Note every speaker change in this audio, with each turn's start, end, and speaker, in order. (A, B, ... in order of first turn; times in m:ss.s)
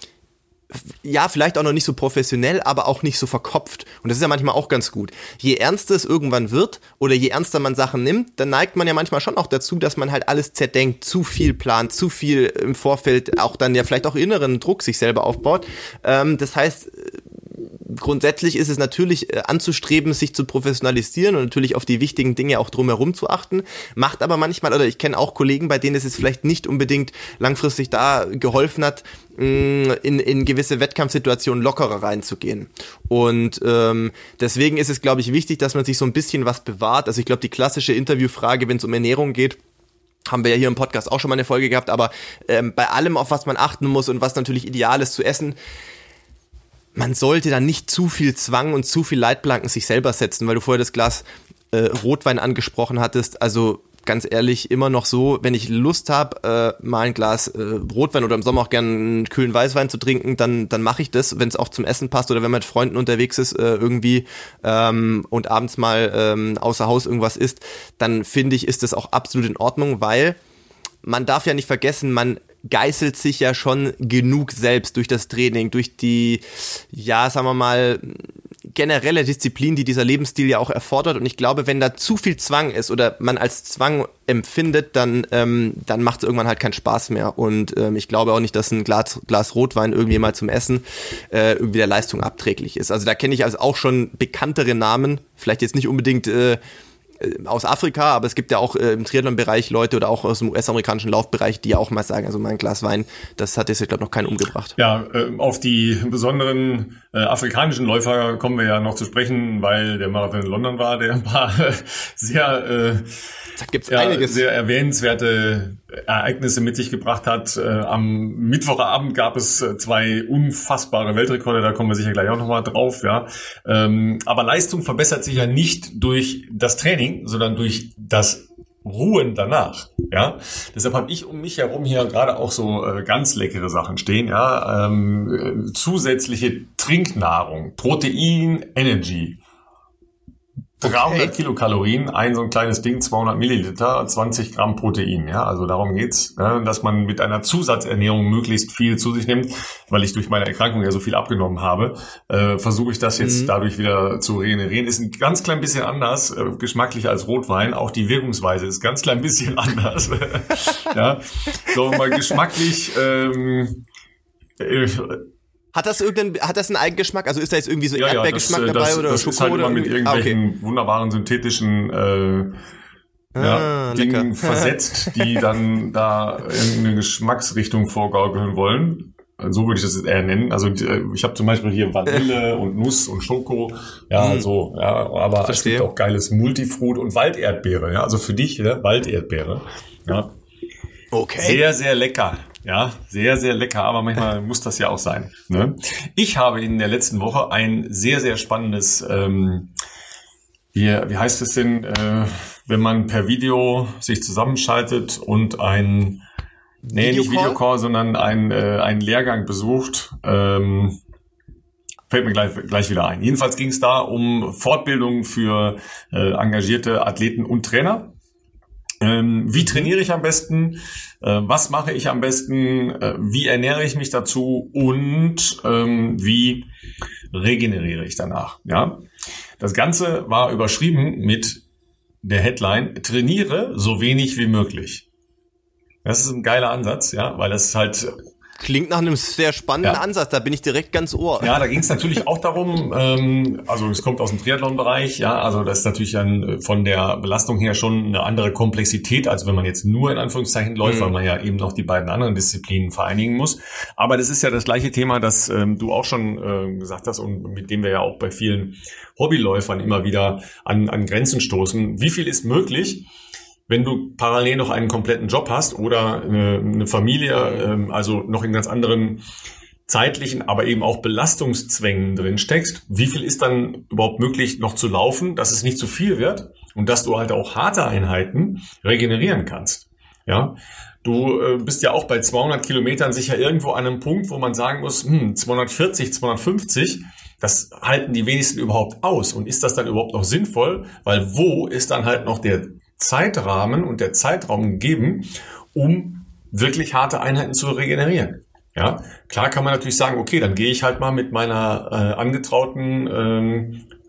0:00.7-0:39.6 A
0:40.3-0:45.6 A
0:46.9-1:10.4 A
1:11.0-1:36.6 A
1:37.2-1:44.8 A
1:44.8-1:53.1 B
1:53.6-1:54.4 A
1:53.9-2:19.4 B
2:20.8-2:43.8 B
2:20.8-2:21.3 A
2:33.2-2:33.5 A
2:44.6-2:45.3 B
2:45.7-2:50.4 A
2:47.9-2:52.6 B
2:53.4-2:54.7 A
2:53.4-3:10.3 B
3:04.2-3:04.5 A
3:05.4-3:05.8 A
3:11.1-3:11.6 A
3:11.4-3:19.7 B
3:20.7-3:26.2 B
3:26.9-3:27.6 A
3:26.9-3:31.0 B
3:32.1-3:38.1 B
3:39.0-3:46.6 B
3:47.3-3:49.0 B
3:49.6-3:51.6 B
3:52.2-3:55.0 B
3:56.0-3:58.1 B
3:58.6-4:01.5 A
4:01.4-4:23.1 B
4:10.8-4:11.1 A
4:23.7-4:29.2 B
4:29.9-5:03.8 B